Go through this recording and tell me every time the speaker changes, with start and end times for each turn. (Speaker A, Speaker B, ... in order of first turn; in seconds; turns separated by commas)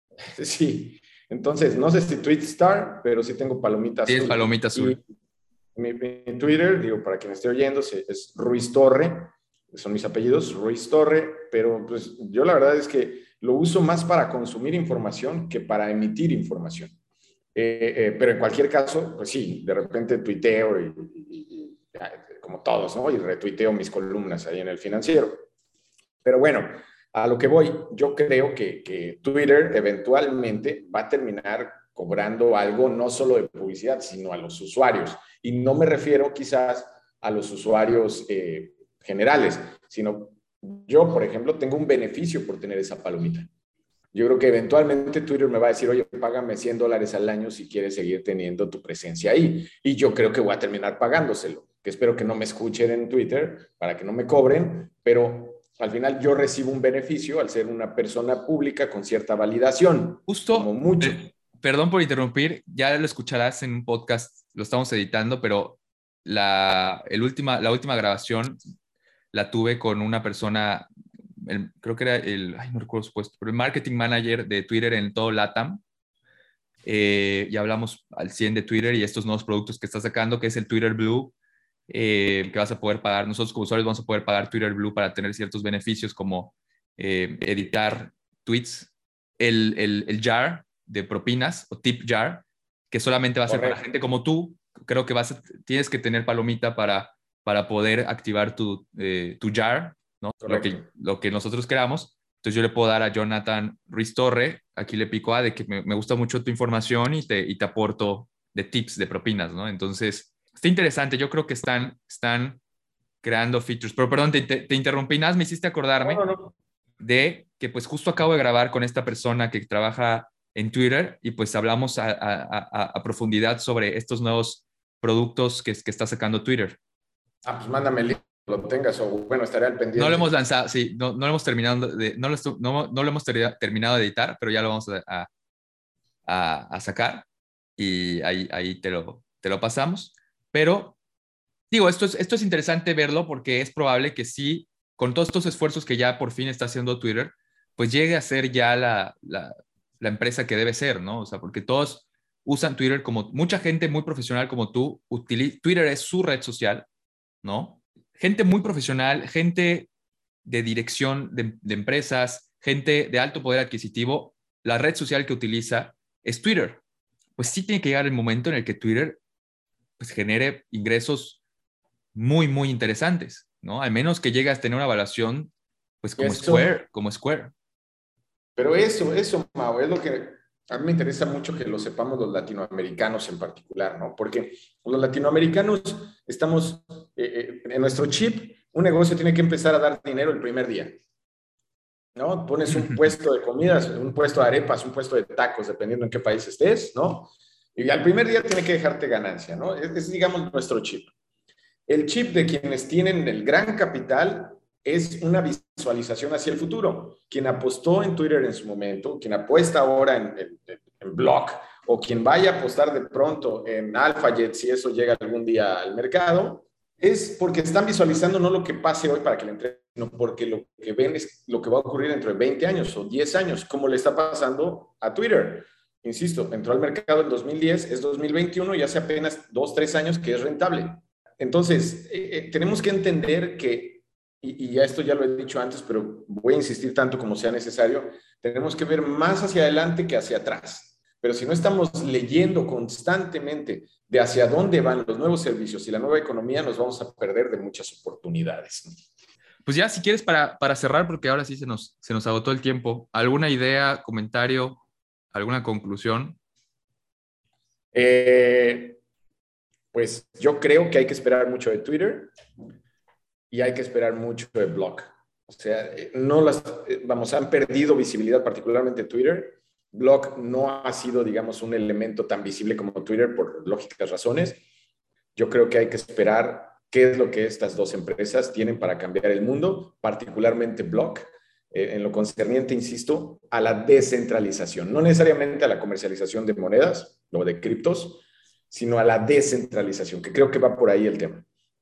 Speaker A: 0.3-5.0, Speaker B: 4.1-5.0, Speaker A: 5.8-16.9, Speaker A: 17.5-25.5, Speaker A: 26.2-43.5, Speaker A: 44.1-61.3, Speaker B: 60.3-68.6, Speaker B: 69.3-70.9, Speaker B: 71.4-75.8, Speaker B: 76.8-81.3, Speaker B: 81.9-112.6, Speaker A: 93.5-93.8, Speaker A: 100.4-100.8, Speaker B: 113.2-116.2, Speaker A: 116.0-116.5, Speaker B: 117.0-126.8, Speaker A: 127.4-130.3, Speaker B: 129.9-135.3, Speaker B: 136.2-137.2, Speaker B: 137.8-140.9, Speaker B: 141.7-156.8, Speaker B: 157.4-159.9, Speaker B: 160.4-166.8, Speaker B: 167.4-169.2, Speaker B: 170.0-171.4, Speaker B: 172.1-175.5, Speaker B: 176.0-177.5, Speaker A: 176.2-176.7, Speaker A: 178.6-191.0, Speaker A: 192.2-201.1, Speaker B: 192.7-193.1, Speaker A: 201.9-248.9, Speaker B: 249.6-254.8, Speaker B: 255.3-256.4, Speaker A: 257.9-259.0, Speaker A: 259.9-262.3, Speaker A: 263.5-274.6, Speaker A: 275.4-291.5